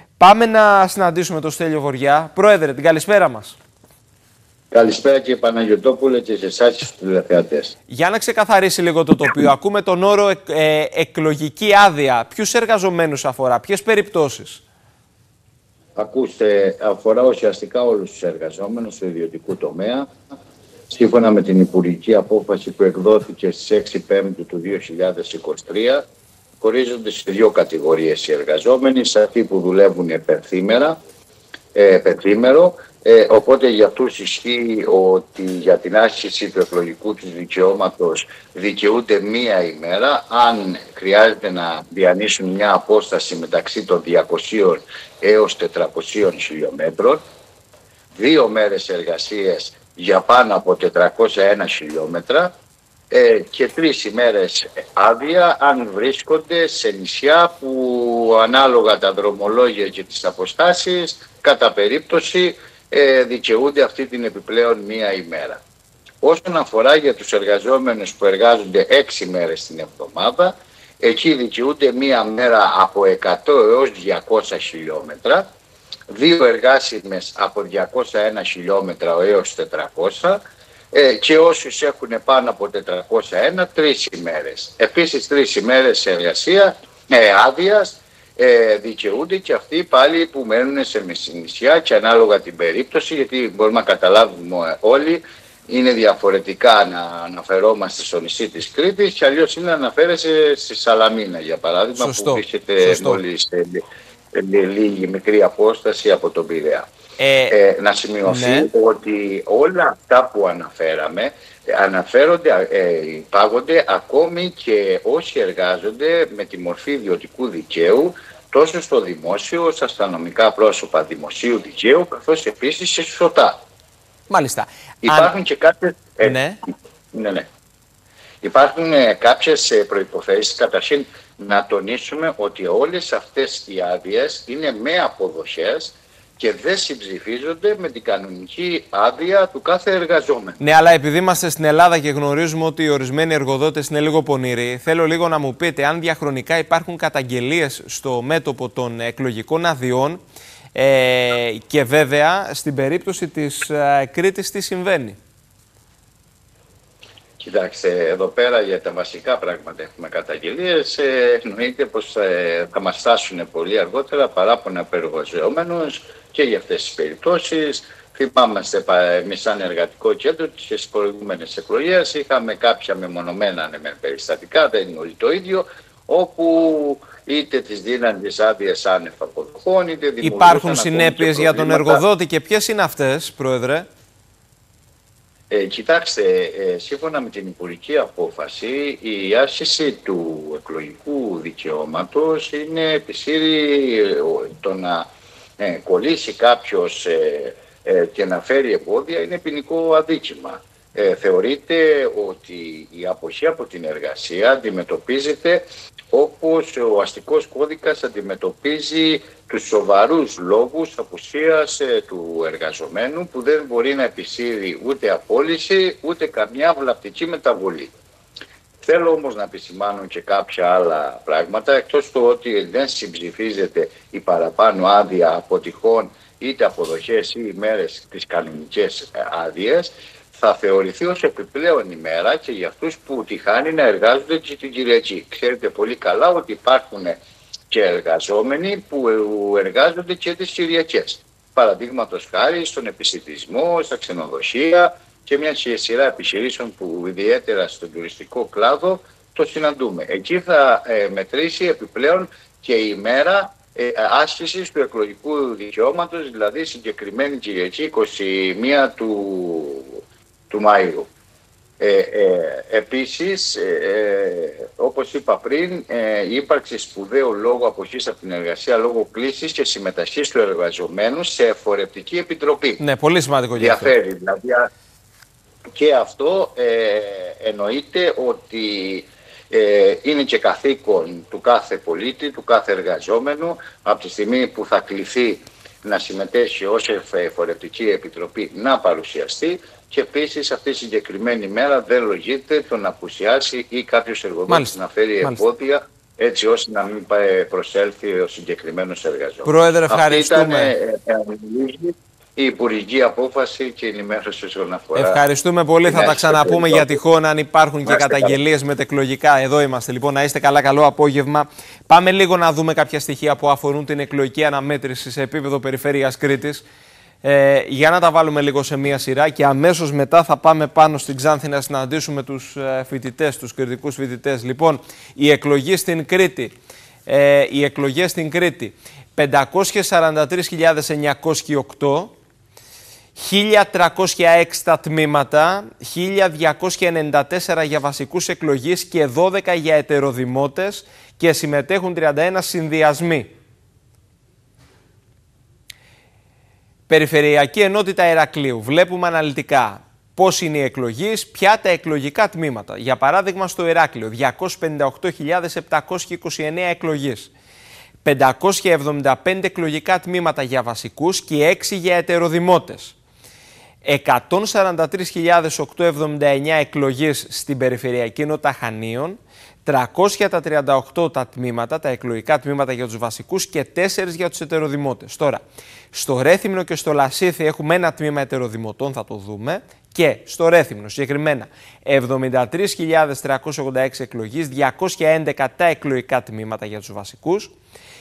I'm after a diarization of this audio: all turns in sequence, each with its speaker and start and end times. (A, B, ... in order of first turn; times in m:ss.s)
0:00.2-0:03.6 A
0:04.7-0:07.7 B
0:07.9-0:14.6 A
0:16.0-0:20.1 B
0:20.9-0:26.0 B
0:26.6-0:31.0 B
0:31.7-0:47.2 B
0:48.1-0:52.5 B
0:53.1-1:05.6 B
1:06.2-1:15.4 B
1:16.1-1:20.4 B
1:20.9-1:43.8 B
1:42.0-1:43.2 A
1:44.4-1:46.9 B
1:47.2-1:47.6 A
1:47.5-2:03.6 B
1:48.2-1:48.7 A
2:04.3-2:05.3 A
2:05.0-2:07.4 B
2:06.2-2:06.6 A
2:08.4-2:20.6 B
2:20.6-2:30.2 A
2:30.8-2:35.2 A
2:37.4-3:02.0 B
3:00.2-3:03.9 A
3:05.5-3:15.1 B
3:15.6-3:37.9 B
3:38.8-3:57.2 B
3:57.7-4:21.1 B
4:21.8-4:32.8 B
4:32.8-4:33.9 A
4:33.6-4:34.7 B
4:35.8-5:05.2 B
4:54.5-4:55.4 A
4:59.4-5:00.7 A
5:05.0-5:16.6 A
5:05.9-5:07.0 B
5:07.9-5:08.4 B
5:17.2-5:26.5 A
5:27.1-5:32.1 A
5:33.2-5:43.3 A
5:46.9-5:57.3 A
5:58.0-6:03.0 A
6:03.8-6:27.5 A